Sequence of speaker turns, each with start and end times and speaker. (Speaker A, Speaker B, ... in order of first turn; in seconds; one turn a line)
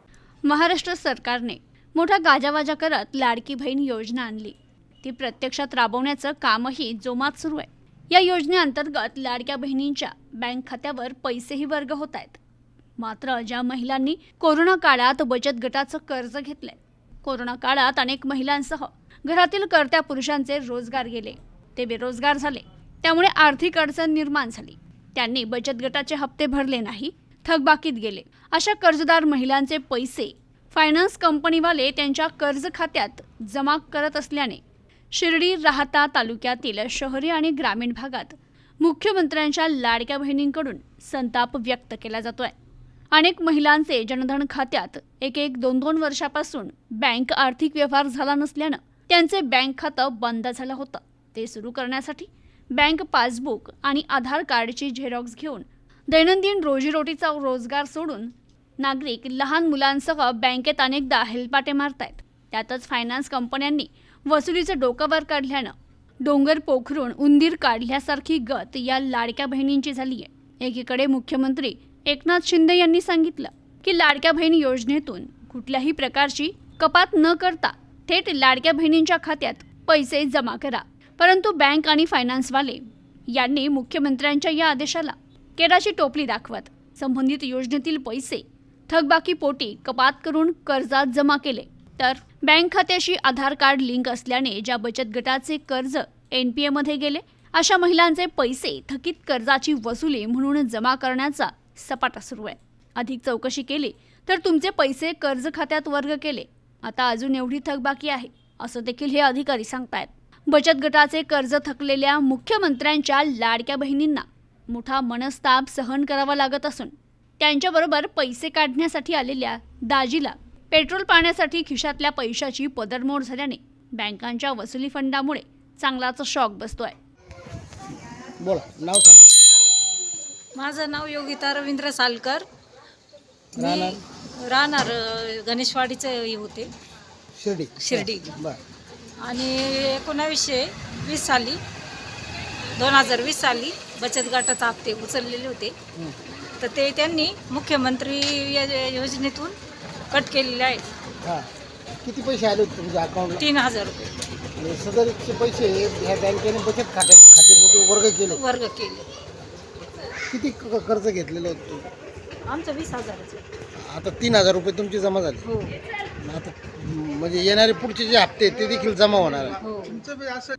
Speaker A: 0.4-12.4
Speaker A: 13.0-42.5
Speaker A: 43.1-127.0
Speaker B: 128.4-129.2
Speaker C: 130.5-132.4
Speaker B: 133.5-134.0
Speaker C: 133.6-136.7
Speaker B: 137.3-138.6
Speaker C: 137.8-138.3
Speaker C: 139.2-141.6
Speaker C: 142.7-145.7
Speaker C: 146.6-149.6
Speaker C: 150.1-150.8
Speaker B: 152.0-153.4
Speaker C: 153.4-154.1
Speaker B: 154.6-158.4
Speaker C: 158.3-159.1
Speaker B: 160.3-161.9
Speaker C: 162.4-163.4
Speaker B: 163.8-165.4
Speaker C: 165.4-165.7
Speaker B: 166.2-169.6
Speaker C: 169.6-170.1